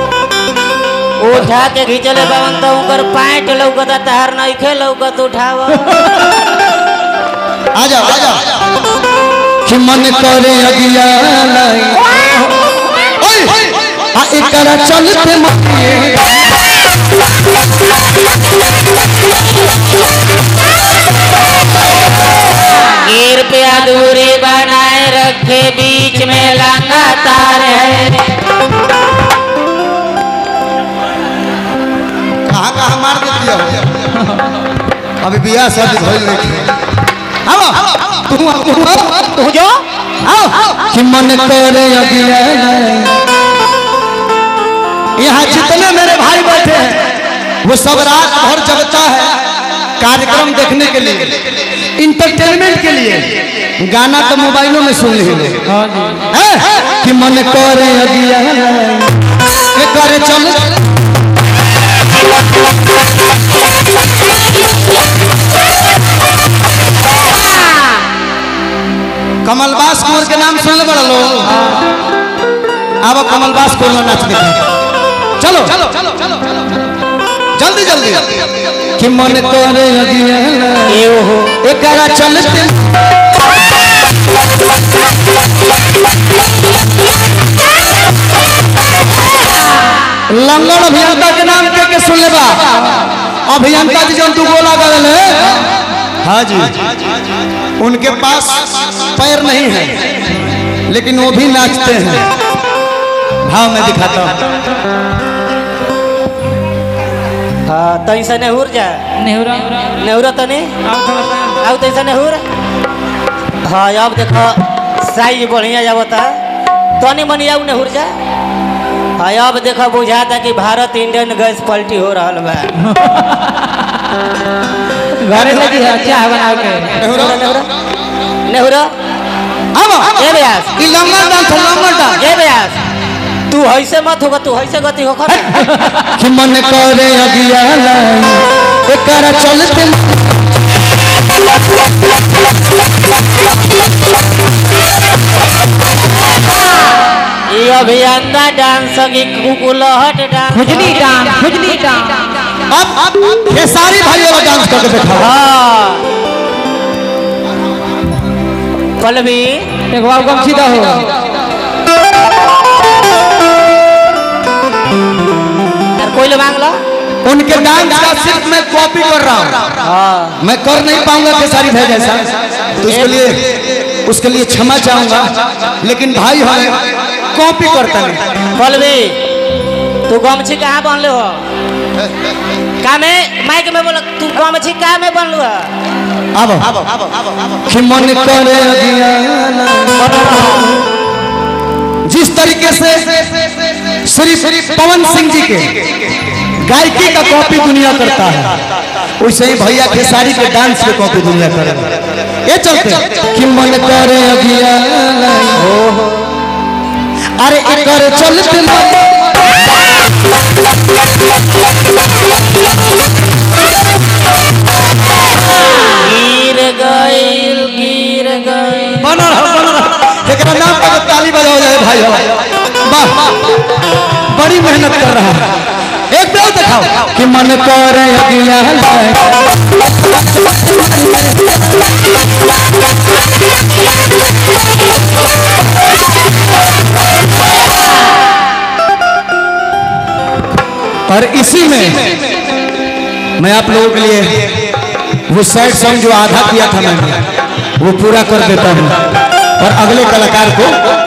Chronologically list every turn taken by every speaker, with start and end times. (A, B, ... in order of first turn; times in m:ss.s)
0:01.2-0:05.9 A
0:07.7-0:08.4 B
0:09.6-0:12.1 B
0:13.2-0:16.4 B
0:23.0-0:28.4 A
0:32.4-0:33.8 B
0:35.2-0:36.7 B
0:37.4-0:39.3 B
0:39.2-0:39.8 A
0:40.2-0:43.2 B
0:45.2-0:49.3 B
0:50.0-0:51.4 B
0:52.0-0:55.6 B
0:55.7-0:56.3 C
0:56.3-0:59.1 B
0:59.7-1:00.8 B
1:09.4-1:11.6 B
1:13.0-1:14.6 B
1:15.4-1:16.0 B
1:17.6-1:18.3 B
1:19.0-1:21.0 B
1:20.9-1:21.6 A
1:21.6-1:22.8 B
1:30.3-1:32.9 B
1:33.5-1:35.6 B
1:36.2-1:36.9 B
1:37.8-1:40.1 B
1:40.9-1:42.3 B
1:43.4-1:44.4 B
1:47.6-1:49.1 A
1:49.2-1:49.9 C
1:49.6-1:50.8 A
1:50.8-1:51.5 C
1:51.5-1:52.4 A
1:53.6-1:56.4 A
1:57.0-1:58.1 A
1:59.2-2:02.9 A
2:05.2-2:07.0 C
2:05.4-2:05.6 A
2:07.0-2:07.4 B
2:07.0-2:07.7 A
2:08.4-2:08.9 A
2:09.7-2:10.2 B
2:10.1-2:10.7 A
2:10.8-2:12.2 B
2:12.2-2:12.8 A
2:13.5-2:15.6 A
2:15.5-2:20.3 B
2:27.5-2:31.3 A
2:30.5-2:32.6 C
2:32.7-2:35.3 B
2:35.1-2:36.0 A
2:39.0-2:39.8 A
2:39.9-2:41.3 C
2:46.0-2:46.8 A
2:47.2-2:49.7 B
2:49.8-2:50.4 A
2:50.4-2:58.2 B
2:52.8-2:53.2 A
2:58.5-2:59.2 A
3:00.0-3:01.4 A
3:02.8-3:05.7 A
3:06.3-3:06.9 B
3:07.6-3:10.6 B
3:10.0-3:10.7 A
3:12.0-3:13.3 B
3:13.9-3:15.9 B
3:16.5-3:18.6 B
3:19.2-3:25.7 B
3:25.7-3:26.2 A
3:27.4-3:29.2 B
3:35.9-3:39.1 A
3:39.0-3:43.3 B
3:44.3-3:45.5 B
3:46.1-3:49.5 B
3:50.5-3:51.3 B
4:01.1-4:02.1 B
4:03.4-4:04.6 B
4:05.3-4:07.2 B
4:07.8-4:09.0 B
4:09.6-4:10.8 B